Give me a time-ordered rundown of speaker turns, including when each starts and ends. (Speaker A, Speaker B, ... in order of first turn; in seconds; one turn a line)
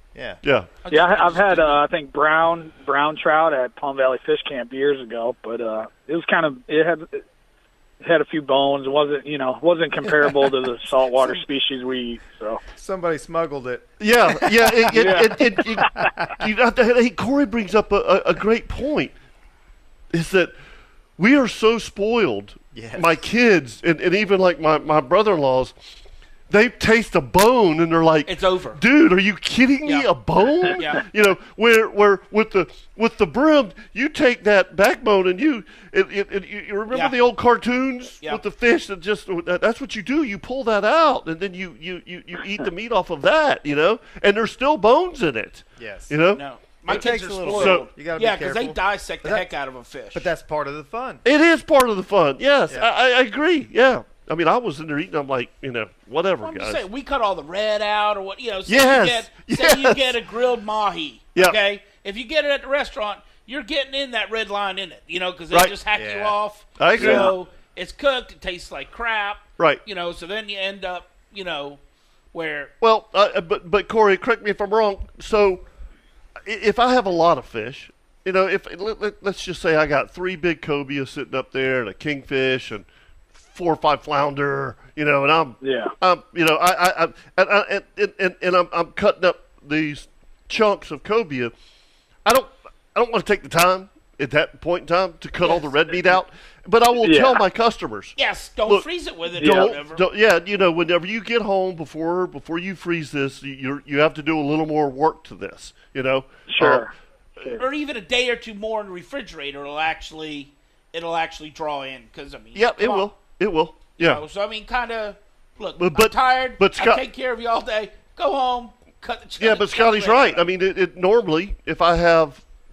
Speaker A: 0.4-0.7
Speaker B: 0.8-1.8
Speaker C: 0.9-7.2
Speaker C: 8.0-12.6
Speaker D: 12.7-16.2
Speaker A: 14.0-19.1
Speaker C: 14.9-16.1
Speaker A: 20.1-20.5
Speaker A: 21.2-25.7
Speaker D: 22.7-23.2
Speaker A: 26.5-47.9
Speaker B: 28.3-28.8
Speaker B: 30.7-31.1
Speaker D: 45.8-46.1
Speaker B: 46.3-50.3
Speaker D: 46.9-49.5
Speaker D: 50.1-51.2
Speaker A: 51.2-56.8
Speaker B: 56.4-71.8
Speaker A: 58.7-60.1
Speaker D: 65.9-66.4
Speaker A: 66.8-67.3
Speaker B: 72.3-72.7
Speaker A: 72.8-75.6
Speaker A: 76.5-91.5
Speaker C: 85.6-85.9
Speaker A: 92.3-98.9
Speaker C: 97.0-97.4
Speaker B: 98.2-100.0
Speaker C: 99.4-99.7
Speaker A: 99.4-106.9
Speaker C: 106.5-106.9
Speaker B: 107.5-113.1
Speaker A: 112.5-114.2
Speaker B: 114.0-120.5
Speaker A: 115.8-117.0
Speaker A: 119.4-122.4